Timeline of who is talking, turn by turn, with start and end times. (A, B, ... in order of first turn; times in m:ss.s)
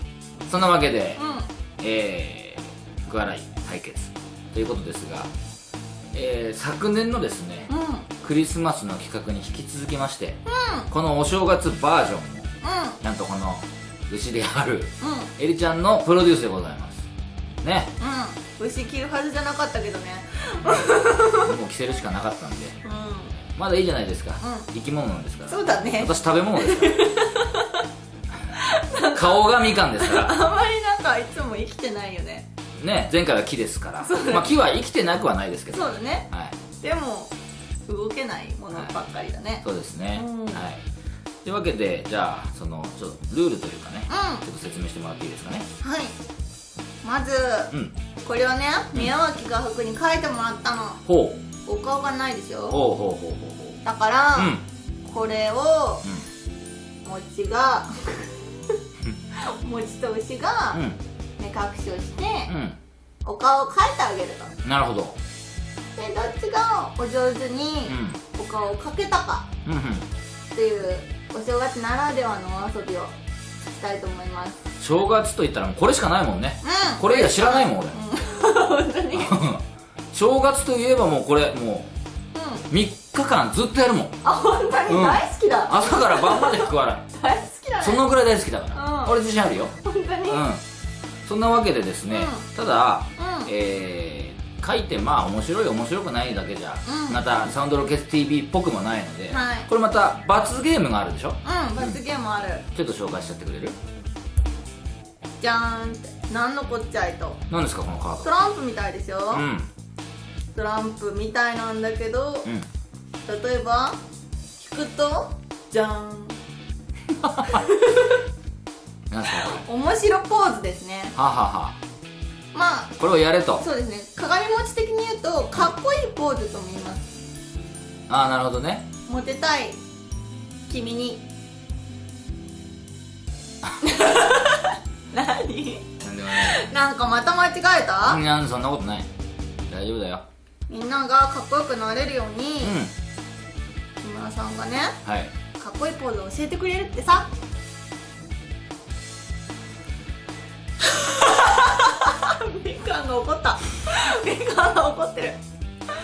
0:00.5-0:01.2 A
0:01.2-0:01.5 B
0:01.8-0:05.3 A
0:06.1-0:12.5 A
0:07.7-0:08.1 B
0:10.5-0:10.9 B
0:12.6-0:13.0 B
0:13.0-0:17.0 A
0:15.0-0:15.3 B
0:17.6-0:17.9 A
0:18.0-0:21.5 B
0:20.6-0:22.8 A
0:22.8-0:23.4 B
0:23.6-0:27.1 A
0:24.4-0:24.7 B
0:25.5-0:27.8 B
0:28.6-0:32.5 B
0:29.1-0:30.4 A
0:32.8-0:36.6 A
0:34.0-0:34.5 B
0:35.7-0:36.3 B
0:36.8-0:37.3 B
0:37.9-0:40.6 B
0:39.6-0:40.8 A
0:41.4-0:45.7 A
0:44.1-0:44.4 B
0:45.8-0:46.2 B
0:47.0-0:47.7 B
0:48.2-0:51.0 B
0:51.0-0:51.4 A
0:51.7-0:52.8 B
0:52.7-0:53.8 A
0:53.8-0:56.0 B
0:54.4-0:54.6 A
0:57.0-0:58.8 B
0:59.4-1:00.8 B
1:00.7-1:01.0 A
1:01.4-1:02.5 B
1:02.5-1:02.8 A
1:03.2-1:04.5 B
1:04.6-1:05.2 A
1:06.0-1:09.5 B
1:07.9-1:08.2 A
1:09.6-1:10.1 A
1:10.5-1:14.6 B
1:14.8-1:18.0 A
1:16.6-1:19.4 B
1:19.1-1:21.9 A
1:22.4-1:22.6 B
1:22.7-1:24.2 A
1:24.2-1:28.0 B
1:24.9-1:27.1 A
1:27.8-1:29.8 A
1:28.8-1:29.2 B
1:29.8-1:30.4 B
1:30.3-1:30.6 A
1:31.2-1:42.0 A
1:32.1-1:32.4 B
1:33.2-1:33.5 B
1:36.9-1:37.2 B
1:39.3-1:39.7 B
1:41.4-1:42.6 B
1:42.7-1:43.8 A
1:45.4-1:47.4 B
1:47.5-1:48.3 A
1:48.2-1:49.5 B
1:49.3-1:49.7 A
1:50.5-1:52.5 B
1:53.3-1:54.0 B
1:54.6-1:56.4 B
1:57.2-1:57.6 A
1:57.5-1:58.2 B
1:59.1-1:59.7 A
1:59.5-2:01.2 B
2:01.2-2:01.8 A
2:02.5-2:03.0 B
2:03.0-2:03.7 A
2:03.6-2:07.1 B
2:08.1-2:08.9 A
2:09.1-2:09.8 B
2:10.7-2:11.2 B
2:13.8-2:18.2 B
2:16.0-2:16.6 A
2:18.0-2:19.1 A
2:19.7-2:20.2 A
2:20.7-2:22.8 B
2:22.6-2:22.9 A
2:24.0-2:25.0 B
2:25.0-2:25.3 A
2:25.6-2:27.3 B
2:30.8-2:35.4 B